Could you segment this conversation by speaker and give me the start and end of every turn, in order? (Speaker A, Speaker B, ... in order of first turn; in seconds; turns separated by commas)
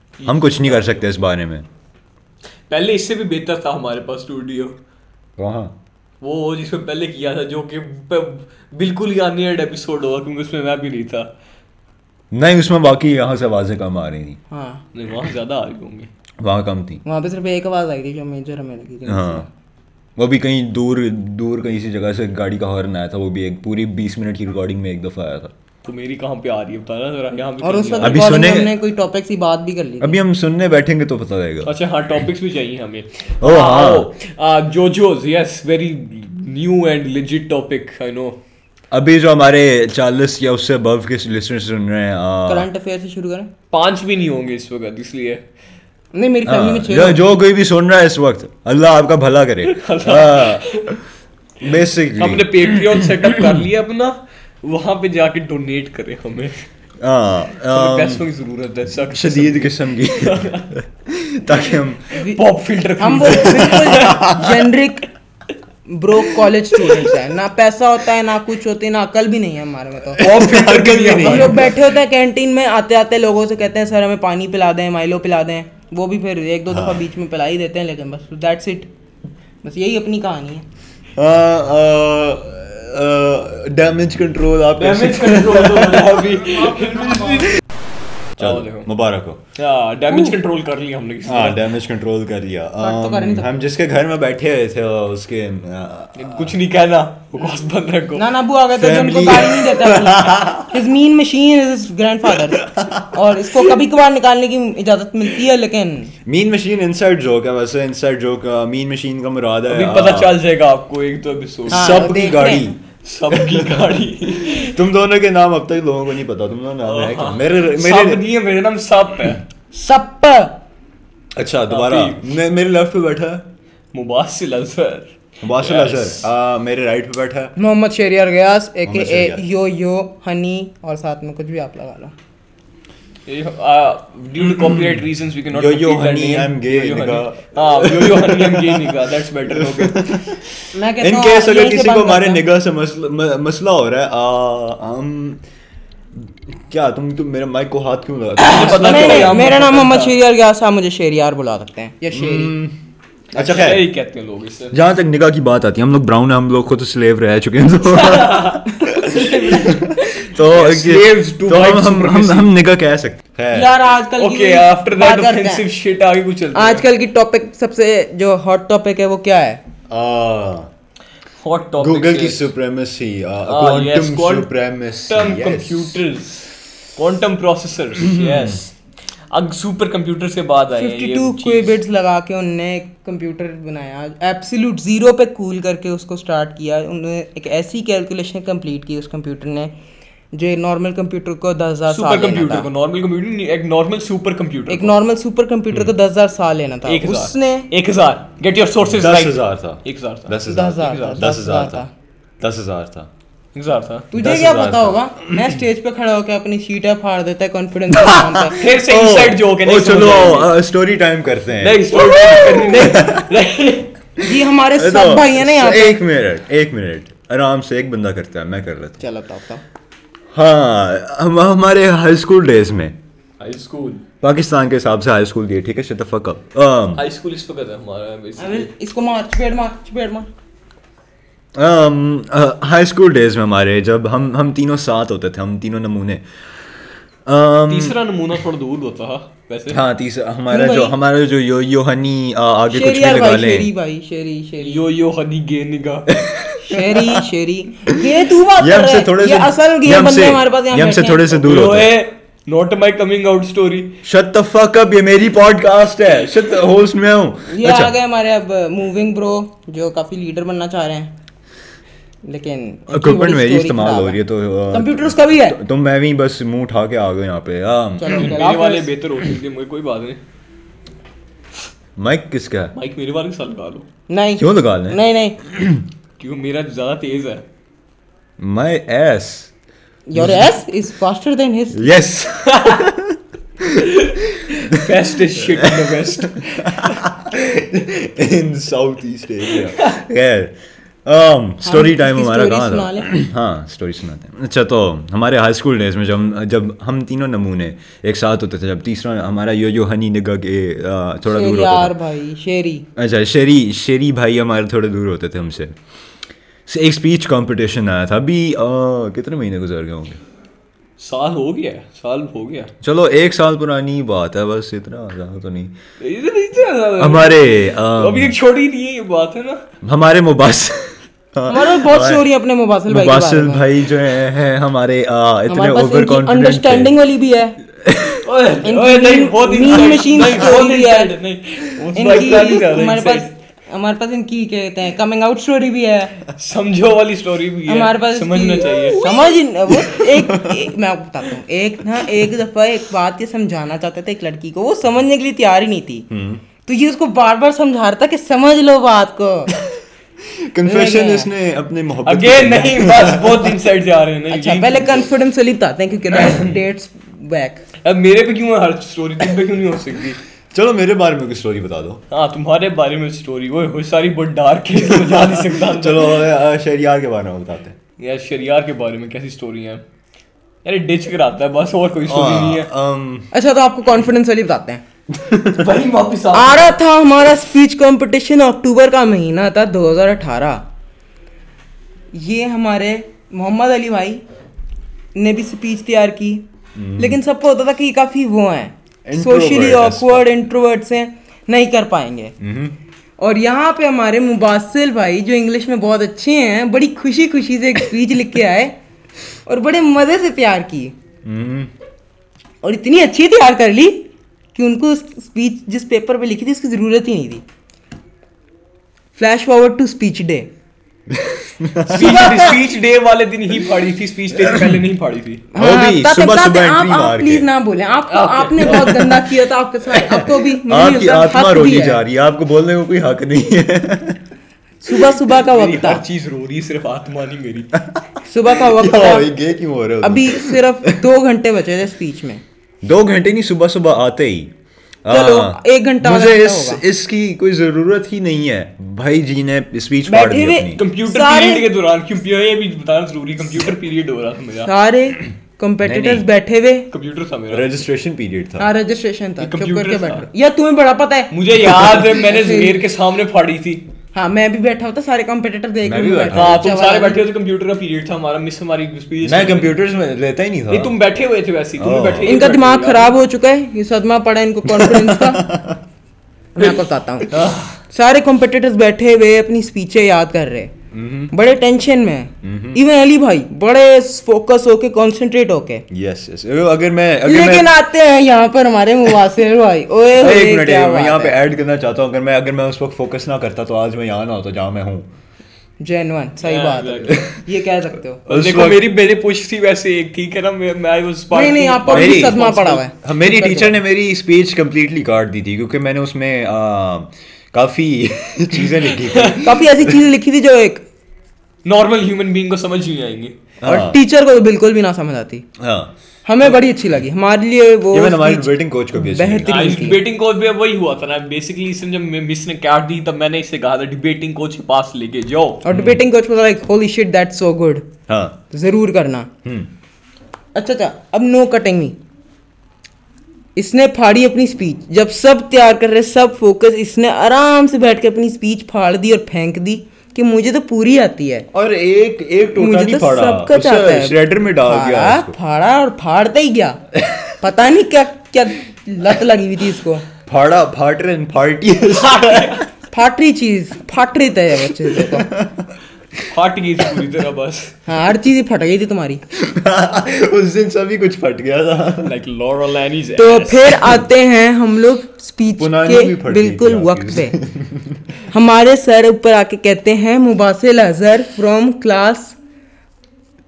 Speaker A: 0.2-1.0, Speaker B: 0.2-1.6, Speaker A: 2.7-4.8, Speaker B: 5.4-5.8, Speaker A: 6.2-11.3, Speaker B: 12.3-14.4, Speaker C: 14.5-14.8, Speaker A: 14.9-16.1, Speaker B: 16.4-17.0, Speaker C: 17.0-19.5, Speaker B: 19.1-19.4, Speaker B: 20.2-25.5, Speaker A: 25.8-28.3, Speaker C: 27.6-30.2, Speaker B: 28.0-28.7, Speaker B: 30.0-31.7, Speaker A: 31.6-38.4, Speaker B: 33.4-34.1, Speaker B: 38.9-42.7, Speaker C: 42.5-43.5, Speaker A: 43.7-45.4, Speaker C: 46.1-47.2, Speaker B: 46.5-51.0, Speaker A: 49.7-51.0, Speaker B: 51.6-53.6, Speaker A: 52.2-56.6, Speaker B: 57.0-58.2, Speaker A: 57.7-60.7, Speaker B: 58.9-62.1, Speaker C: 62.1-62.4, Speaker A: 62.3-64.2, Speaker C: 63.0-65.1, Speaker B: 63.3-64.6, Speaker C: 65.8-70.2, Speaker B: 70.2-71.7, Speaker A: 70.2-71.7, Speaker C: 71.2-78.9, Speaker B: 76.7-77.0, Speaker C: 79.6-80.6, Speaker B: 81.2-86.2, Speaker A: 84.8-87.5, Speaker A: 88.4-88.9, Speaker B: 88.4-89.4, Speaker A: 89.5-91.7, Speaker B: 91.2-96.6, Speaker C: 92.8-93.6, Speaker A: 96.2-98.3, Speaker C: 98.1-106.1, Speaker B: 98.7-100.7, Speaker B: 102.5-103.1, Speaker B: 106.2-110.4, Speaker A: 109.7-112.2, Speaker B: 111.7-112.8, Speaker C: 111.7-112.7, Speaker A: 113.0-114.8, Speaker B: 113.3-118.2, Speaker A: 116.8-119.4, Speaker C: 119.7-120.5, Speaker B: 121.3-123.5, Speaker A: 121.7-122.2, Speaker A: 123.9-126.2, Speaker B: 125.4-127.5, Speaker C: 127.5-132.1, Speaker B: 128.8-129.4, Speaker A: 133.3-140.1, Speaker B: 134.6-145.4, Speaker C: 140.7-142.4, Speaker B: 146.1-149.6, Speaker A: 148.4-150.1, Speaker C: 148.4-152.6, Speaker B: 152.1-152.8, Speaker B: 153.3-153.9, Speaker A: 153.3-154.8, Speaker B: 154.7-163.7, Speaker A: 157.9-162.5, Speaker C: 159.1-159.7, Speaker C: 163.5-165.6, Speaker A: 164.2-166.9, Speaker C: 166.5-169.6, Speaker B: 169.9-170.7, Speaker A: 171.4-172.5, Speaker B: 171.8-176.0, Speaker A: 173.4-174.5, Speaker A: 175.1-178.7, Speaker B: 178.0-178.6, Speaker A: 179.3-181.8, Speaker C: 180.8-189.7, Speaker C: 190.3-192.7, Speaker A: 191.9-194.9, Speaker C: 194.7-197.7, Speaker A: 196.8-200.4, Speaker B: 198.8-201.8, Speaker C: 200.5-201.9, Speaker B: 202.4-203.1, Speaker A: 203.5-204.1, Speaker B: 204.1-205.5, Speaker C: 204.1-208.6, Speaker B: 207.9-213.3, Speaker A: 208.6-210.5, Speaker A: 211.6-213.9, Speaker B: 214.2-219.0, Speaker C: 214.2-216.0, Speaker C: 219.0-219.6, Speaker B: 220.3-222.9, Speaker A: 223.4-224.1, Speaker B: 224.2-227.0, Speaker A: 226.9-228.7, Speaker C: 228.4-230.3, Speaker B: 231.6-236.2, Speaker B: 237.2-237.9, Speaker A: 237.7-239.8, Speaker B: 239.7-243.7, Speaker C: 240.5-240.9, Speaker C: 242.7-244.8, Speaker A: 244.6-246.1, Speaker B: 246.1-247.2, Speaker C: 246.6-251.4, Speaker B: 247.9-251.9, Speaker A: 251.3-253.9, Speaker B: 254.0-257.9, Speaker C: 257.5-261.1, Speaker C: 262.2-264.2, Speaker B: 262.9-268.4, Speaker C: 264.7-265.6, Speaker C: 268.0-268.9, Speaker A: 268.1-270.2, Speaker B: 272.0-272.7, Speaker A: 272.7-273.9, Speaker C: 274.1-275.4, Speaker B: 274.4-275.8, Speaker A: 276.2-277.4, Speaker B: 278.4-279.5, Speaker C: 280.1-281.9, Speaker B: 280.1-280.5, Speaker B: 281.7-301.9, Speaker A: 282.4-282.9, Speaker A: 283.8-287.0, Speaker A: 289.5-290.0, Speaker C: 291.6-293.1, Speaker C: 301.3-302.9, Speaker B: 302.9-305.7, Speaker B: 306.7-310.2, Speaker A: 311.0-312.7, Speaker B: 312.8-315.7, Speaker A: 316.0-319.6, Speaker B: 317.0-318.3, Speaker B: 319.8-322.3, Speaker C: 321.5-323.7, Speaker B: 322.9-326.9, Speaker C: 325.5-327.6, Speaker B: 327.8-328.2, Speaker A: 328.2-333.3, Speaker C: 328.6-331.1, Speaker C: 331.9-336.2, Speaker A: 336.3-339.3, Speaker C: 337.7-346.1, Speaker B: 339.7-340.6, Speaker B: 346.1-346.4, Speaker C: 346.6-349.5, Speaker B: 350.2-353.6, Speaker C: 350.6-351.3, Speaker A: 352.1-355.1, Speaker C: 354.3-357.6, Speaker A: 357.8-360.2, Speaker B: 360.5-362.0, Speaker A: 362.1-366.2, Speaker B: 364.9-367.8, Speaker A: 368.0-369.8, Speaker A: 370.6-372.7, Speaker B: 372.1-373.3, Speaker C: 373.3-374.8, Speaker B: 375.1-375.7, Speaker A: 375.5-376.8, Speaker C: 376.3-380.6, Speaker C: 382.1-384.2, Speaker C: 385.1-386.4, Speaker B: 386.8-387.2, Speaker C: 387.0-392.3, Speaker B: 389.1-390.3, Speaker B: 392.4-392.8, Speaker C: 393.2-398.8, Speaker C: 399.4-400.9, Speaker B: 401.2-401.7, Speaker C: 402.6-407.4, Speaker C: 409.1-410.5, Speaker B: 411.1-412.4, Speaker A: 411.9-415.4, Speaker C: 411.9-412.6, Speaker B: 414.4-414.8, Speaker C: 415.5-422.0, Speaker B: 415.6-417.4, Speaker A: 418.1-419.3, Speaker B: 419.9-424.2, Speaker C: 424.8-426.0, Speaker A: 425.3-427.7, Speaker B: 427.7-430.9, Speaker C: 428.2-429.3, Speaker C: 430.0-432.4, Speaker B: 432.8-434.5, Speaker B: 435.0-440.8, Speaker C: 435.1-436.8, Speaker C: 440.1-441.7, Speaker A: 440.8-444.7, Speaker C: 444.6-446.9, Speaker B: 445.8-446.2, Speaker A: 446.9-447.7, Speaker B: 447.5-448.7, Speaker C: 448.6-452.8, Speaker A: 449.4-450.3, Speaker A: 451.3-453.8, Speaker C: 454.1-457.2, Speaker B: 455.8-456.6, Speaker A: 456.3-459.8, Speaker B: 459.2-460.9, Speaker A: 460.7-463.2, Speaker B: 461.8-462.4, Speaker C: 462.2-465.5, Speaker B: 464.6-465.8, Speaker C: 466.6-467.3, Speaker A: 467.3-467.8, Speaker C: 467.9-470.7, Speaker B: 470.9-471.3, Speaker C: 471.3-475.8, Speaker B: 472.4-472.8, Speaker B: 475.9-477.7, Speaker C: 477.2-481.4, Speaker B: 480.1-485.1, Speaker C: 485.8-488.2, Speaker A: 486.4-487.2, Speaker B: 487.1-487.4, Speaker B: 488.2-488.9, Speaker A: 488.3-492.8, Speaker C: 491.3-493.8, Speaker B: 491.9-499.9, Speaker A: 498.9-499.4, Speaker C: 499.4-500.8, Speaker A: 501.6-503.4, Speaker B: 503.6-504.0, Speaker C: 503.6-505.4, Speaker B: 505.6-505.9, Speaker C: 506.2-510.0, Speaker B: 507.9-509.8, Speaker A: 509.5-515.6, Speaker C: 515.6-517.9, Speaker B: 515.7-516.0, Speaker B: 518.1-518.4, Speaker C: 518.5-519.3, Speaker B: 519.4-519.7, Speaker C: 520.5-522.0, Speaker C: 523.5-531.5, Speaker B: 531.5-535.3, Speaker C: 532.6-536.8, Speaker B: 536.9-537.3, Speaker C: 537.4-540.0, Speaker B: 540.2-542.7, Speaker A: 541.9-542.6, Speaker C: 542.9-545.3, Speaker B: 544.8-546.3, Speaker A: 546.3-547.7, Speaker C: 547.9-549.2, Speaker B: 549.3-552.1, Speaker A: 552.0-553.8, Speaker C: 553.2-557.4, Speaker B: 555.6-558.0, Speaker C: 558.3-562.4